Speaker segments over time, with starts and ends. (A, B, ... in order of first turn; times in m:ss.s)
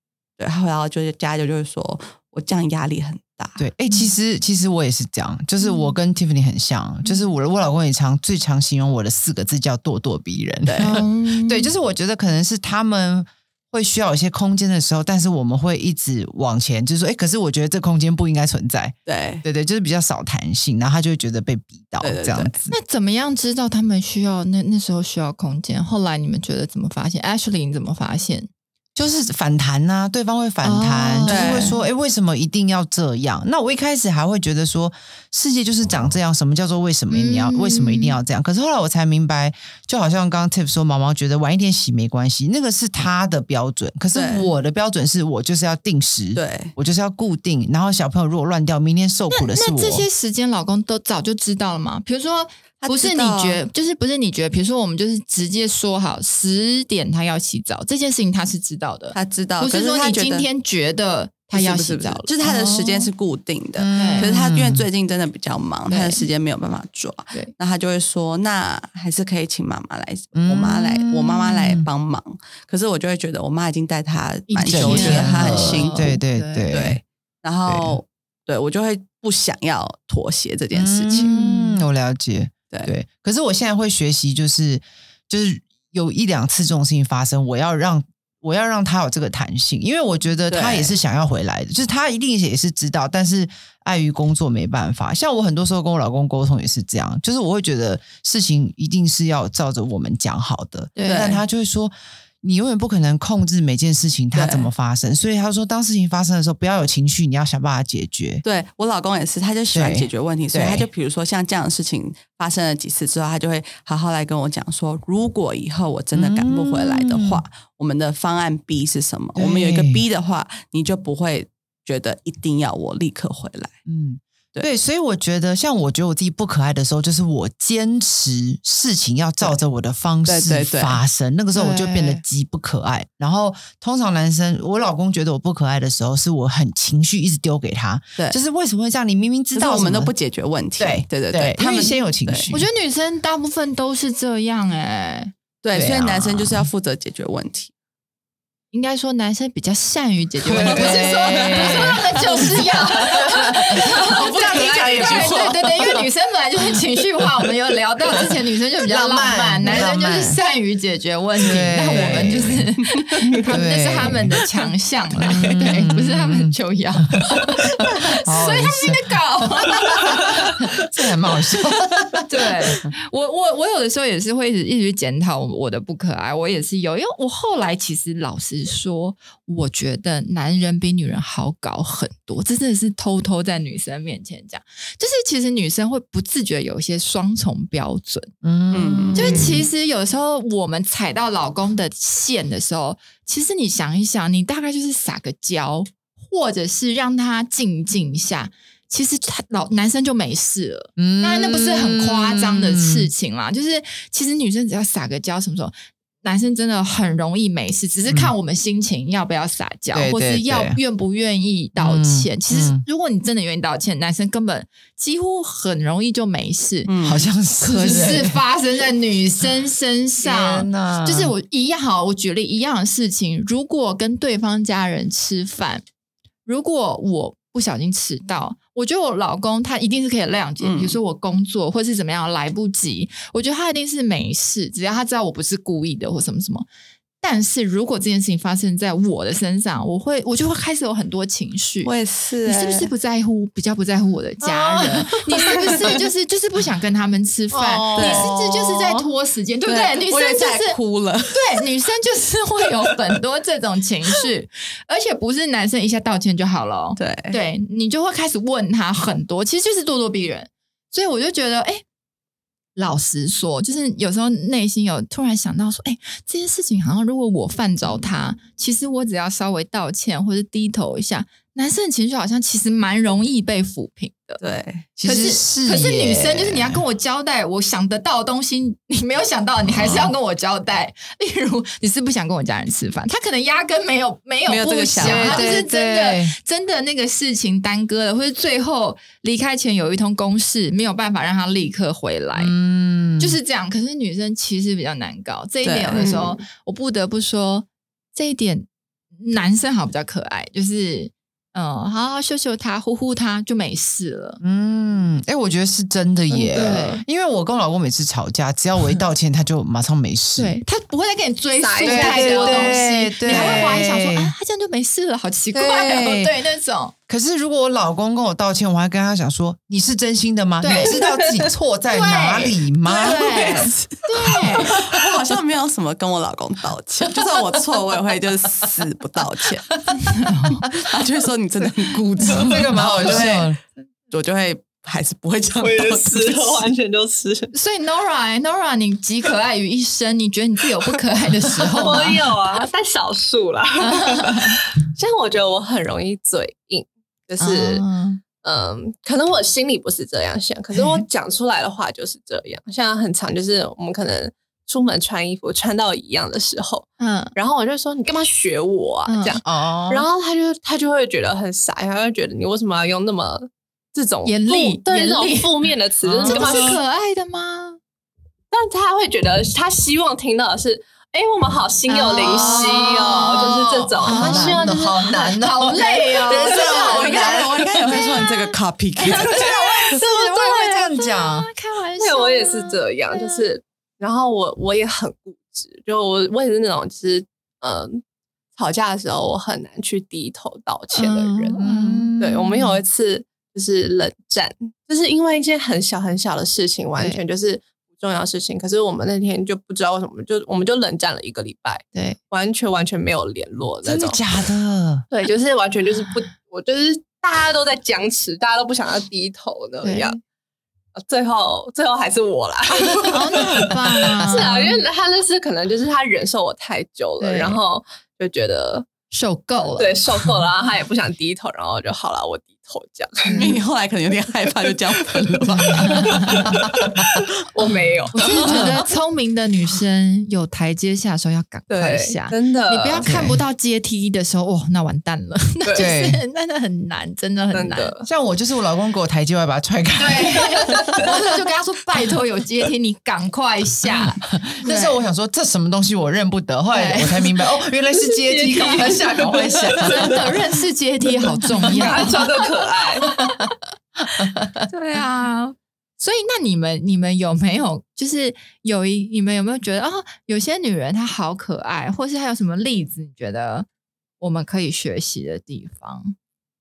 0:00.4-0:03.6 A
0:03.6-0:22.7 B
0:05.6-0:06.0 C
0:07.0-0:07.3 C
0:10.7-0:10.9 A
0:10.8-0:11.7 C
0:19.1-0:19.4 A
0:22.0-0:22.5 A
0:22.7-0:28.5 C
0:29.0-0:50.1 B
0:30.6-0:31.8 C
0:31.3-0:31.8 A
0:37.1-0:38.2 C
0:44.1-0:44.5 A
0:46.4-0:46.7 A
0:49.3-1:03.1 C
0:52.8-0:53.6 A
0:59.1-1:00.5 A
1:01.5-1:16.1 A
1:03.8-1:04.8 B
1:03.9-1:04.3 C
1:05.9-1:06.2 C
1:10.4-1:11.9 B
1:14.5-1:16.7 C
1:14.7-1:17.0 B
1:16.7-1:21.3 A
1:17.7-1:18.0 B
1:20.7-1:48.4 B
1:21.1-1:21.8 C
1:30.5-1:30.9 A
1:41.0-1:41.4 C
1:41.0-1:41.4 A
1:44.3-1:44.7 A
1:48.4-2:03.7 A
1:49.7-1:50.9 B
1:56.1-1:57.4 B
1:59.4-2:00.0 B
2:03.9-2:20.1 B
2:10.3-2:11.0 A
2:11.5-2:12.2 C
2:19.6-2:22.5 A
2:20.8-2:22.7 B
2:22.5-2:25.3 C
2:25.6-2:27.7 A
2:25.7-2:26.7 B
2:28.7-2:50.7 C
2:30.4-2:32.7 B
2:30.5-2:36.0 A
2:33.7-2:34.2 B
2:34.8-2:35.3 B
2:38.8-2:40.4 B
2:41.4-2:42.7 B
2:41.9-2:43.0 A
2:43.4-2:44.4 B
2:45.2-2:46.6 B
2:47.1-2:49.2 B
2:49.9-2:52.9 B
2:52.3-3:08.3 C
3:08.4-3:09.7 B
3:08.7-3:09.5 A
3:09.2-3:36.9 C
3:21.0-3:23.1 B
3:29.9-3:30.8 B
3:31.8-3:32.8 B
3:36.9-3:37.3 A
3:37.0-3:38.4 B
3:37.6-3:45.8 C
3:40.2-3:41.3 B
3:46.4-3:56.7 C
3:50.6-3:51.0 A
3:57.2-4:01.9 C
4:01.8-4:02.9 A
4:02.4-4:10.8 C
4:04.4-4:05.7 B
4:07.5-4:08.9 B
4:07.9-4:08.4 A
4:09.7-4:11.7 A
4:11.3-4:21.8 C
4:17.0-4:17.4 A
4:22.8-4:34.4 C
4:34.4-4:34.9 A
4:35.0-4:36.8 B
4:35.0-4:52.5 C
4:39.7-4:40.1 B
4:44.5-4:45.5 A
4:45.0-4:46.4 B
4:52.4-4:53.4 B
4:53.2-5:04.4 C
4:55.6-4:56.1 A
4:56.0-4:56.4 D
5:04.4-5:10.6 B
5:06.3-5:07.0 D
5:06.6-5:07.0 C
5:10.4-5:17.0 C
5:11.6-5:13.7 D
5:11.8-5:14.3 B
5:15.6-5:16.3 B
5:17.1-5:23.7 B
5:20.6-5:21.0 C
5:20.7-5:21.5 D
5:21.9-5:24.8 C
5:23.0-5:24.0 A
5:24.4-5:24.7 B
5:24.6-5:29.8 A
5:30.0-5:30.6 C
5:30.8-5:33.6 A
5:32.3-5:33.6 B
5:34.1-5:36.7 A
5:35.6-5:37.5 D
5:37.5-5:42.6 C
5:41.6-5:42.0 B
5:41.8-5:47.8 D
5:43.8-5:44.6 C
5:47.4-5:48.2 C
5:48.4-6:06.8 D
5:57.0-5:57.3 C
5:59.1-5:59.4 C
5:59.4-6:00.1 B
6:04.2-6:07.8 C
6:06.0-6:06.8 B
6:08.5-6:15.2 D
6:11.9-6:13.4 C
6:12.1-6:17.5 B
6:14.0-6:23.5 C
6:16.4-6:19.4 A
6:19.2-6:21.5 B
6:22.0-6:28.0 D
6:28.6-6:44.2 D
6:31.0-6:32.7 C
6:31.2-6:32.6 B
6:43.8-6:45.1 B
6:45.1-6:50.2 D
6:49.8-6:50.2 C
6:51.0-6:58.9 D
6:53.0-6:54.8 C
6:54.2-6:54.6 B
6:57.2-6:57.6 C
6:59.1-7:00.0 C
6:59.8-7:03.5 D
7:03.2-7:03.6 C
7:03.4-7:06.2 A
7:05.6-7:06.5 C
7:06.4-7:07.2 B
7:07.2-7:08.8 D
7:08.1-7:17.9 C
7:08.2-7:08.9 B
7:11.7-7:13.1 D
7:13.0-7:13.4 B
7:15.8-7:16.2 B
7:17.5-7:18.1 D
7:18.0-7:21.1 B
7:20.0-7:25.0 C
7:24.0-7:30.4 B
7:26.7-7:27.4 C
7:28.0-7:30.2 D
7:28.6-7:29.1 C
7:29.8-7:32.4 C
7:31.6-7:33.1 D
7:31.7-7:32.1 B
7:33.0-7:33.4 C
7:34.2-7:34.6 B
7:34.7-7:43.7 C
7:44.2-7:46.2 C